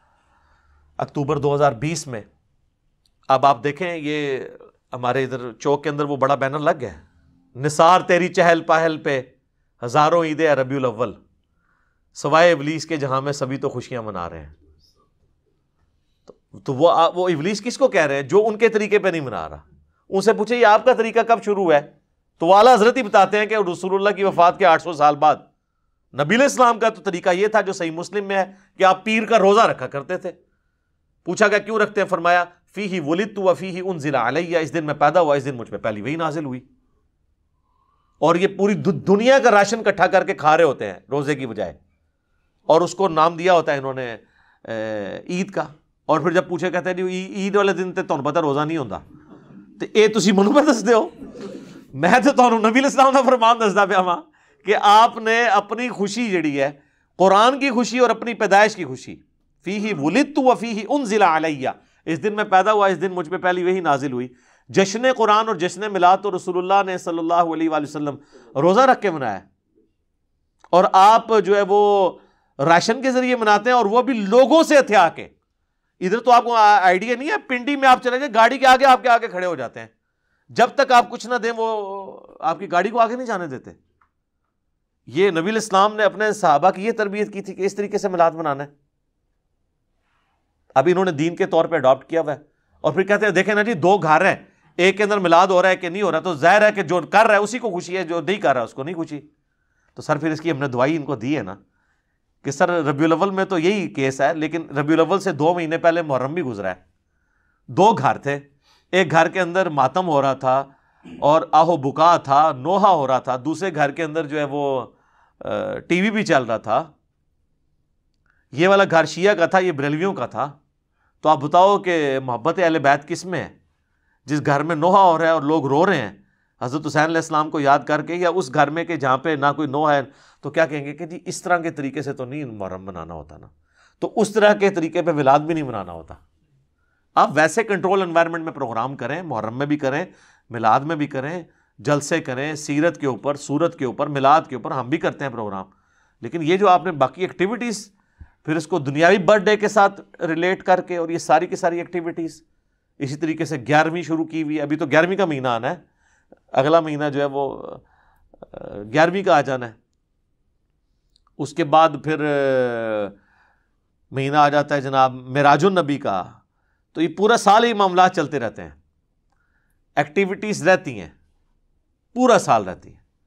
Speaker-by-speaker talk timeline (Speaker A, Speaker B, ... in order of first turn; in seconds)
Speaker A: 1.0-2.2, 3.3-7.0, 7.5-9.3, 9.8-11.2, 12.1-14.5, 16.3-25.4, 26.1-30.4, 31.2-36.6, 38.2-41.8, 42.7-49.0, 49.8-69.5, 70.7-75.3, 76.0-79.9, 80.5-83.8, 85.1-88.7, 90.7-99.2, 100.0-101.6, 102.4-106.8, 107.7-116.9, 118.5-120.5, 121.2-123.5, 124.2-136.2, 137.2-145.7, 146.2-147.9, 148.4-152.4, 153.0-155.8, 156.5-157.8, 158.4-159.8, 161.4-163.2, 164.1-166.4, 166.9-168.8, 170.0-171.1, 172.1-173.0